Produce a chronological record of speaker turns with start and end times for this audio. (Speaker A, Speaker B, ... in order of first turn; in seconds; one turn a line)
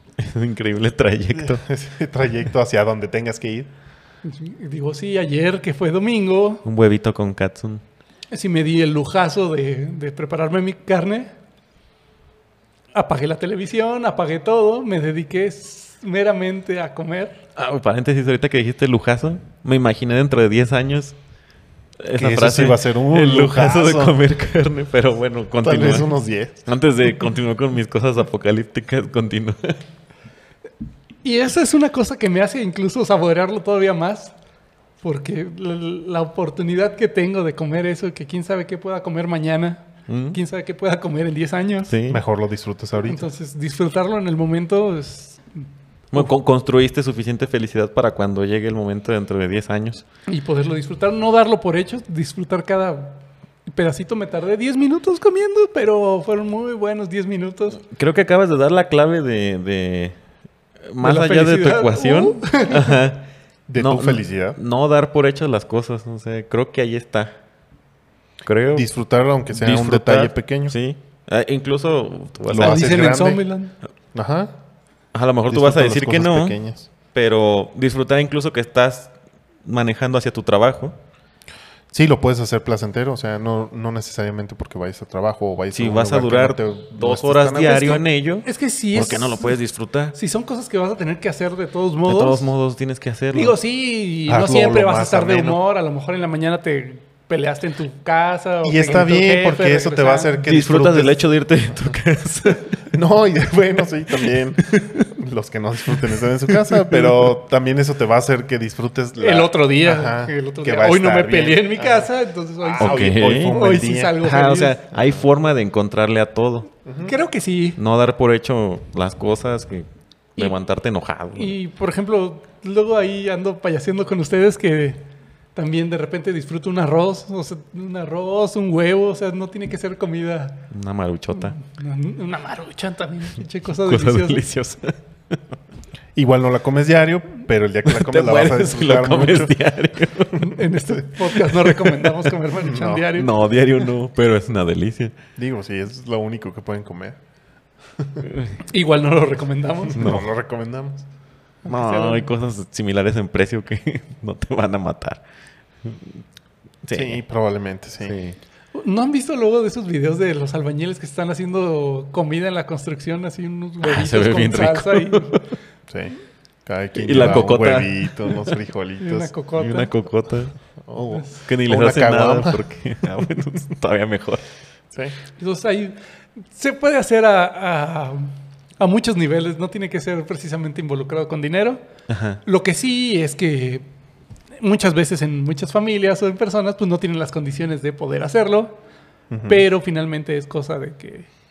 Speaker A: 0.2-1.6
Speaker B: 1.3-3.7
Speaker C: 4.2-6.6
Speaker A: 6.6-7.8
Speaker C: 8.3-11.3
Speaker C: 12.9-17.4
Speaker A: 17.6-21.1
Speaker A: 22.0-26.1
Speaker B: 22.1-24.1
Speaker B: 25.6-26.6
Speaker A: 26.6-29.8
Speaker C: 31.2-34.3
Speaker C: 35.0-41.9
Speaker A: 40.1-40.4
Speaker A: 41.9-42.2
Speaker B: 42.1-43.3
Speaker C: 43.0-45.6
Speaker A: 46.1-50.0
Speaker C: 50.3-57.8
Speaker A: 57.8-60.2
Speaker A: 60.9-67.3
Speaker C: 61.0-63.0
Speaker B: 63.7-64.6
Speaker A: 68.4-68.9
Speaker B: 68.7-70.7
Speaker A: 69.5-73.2
Speaker B: 72.5-73.4
Speaker C: 72.6-73.7
Speaker B: 74.1-74.5
Speaker A: 75.1-76.6
Speaker B: 75.5-76.9
Speaker A: 77.1-79.1
Speaker A: 79.6-81.0
Speaker B: 81.9-88.0
Speaker A: 85.7-90.2
Speaker C: 88.4-89.6
Speaker C: 90.1-92.5
Speaker A: 92.0-93.5
Speaker C: 93.3-100.4
Speaker B: 94.3-95.6
Speaker B: 98.6-101.2
Speaker A: 100.4-102.9
Speaker B: 102.9-112.1
Speaker A: 104.2-105.1
Speaker A: 105.9-107.3
Speaker C: 109.2-114.8
Speaker B: 112.6-114.2
Speaker A: 112.8-113.6
Speaker A: 114.2-116.7
Speaker B: 116.8-117.1
Speaker C: 117.0-117.8
Speaker A: 117.8-121.5
Speaker C: 121.3-125.0
Speaker C: 125.5-130.7
Speaker A: 130.7-131.6
Speaker C: 131.3-134.4
Speaker A: 133.8-135.3
Speaker B: 136.1-139.5
Speaker A: 137.8-140.6
Speaker C: 140.3-143.3
Speaker A: 141.3-142.3
Speaker B: 142.6-143.1
Speaker A: 143.1-145.1
Speaker B: 145.4-147.2
Speaker B: 148.0-148.2
Speaker A: 148.3-148.6
Speaker C: 148.7-150.2
Speaker B: 149.9-151.1
Speaker C: 151.6-152.3
Speaker A: 151.7-155.2
Speaker A: 155.8-156.2
Speaker A: 156.8-157.2
Speaker B: 156.9-158.2
Speaker A: 158.0-158.4
Speaker C: 158.7-165.4
Speaker A: 163.8-165.4
Speaker B: 165.9-166.1
Speaker B: 166.7-169.3
Speaker A: 166.9-168.5
Speaker C: 169.0-169.9
Speaker A: 169.6-170.5
Speaker B: 170.8-172.6
Speaker C: 171.1-171.4
Speaker A: 171.4-174.4
Speaker C: 175.4-181.8
Speaker A: 182.1-182.4
Speaker C: 182.4-183.8
Speaker C: 184.6-188.8
Speaker B: 189.3-189.6
Speaker C: 189.5-191.3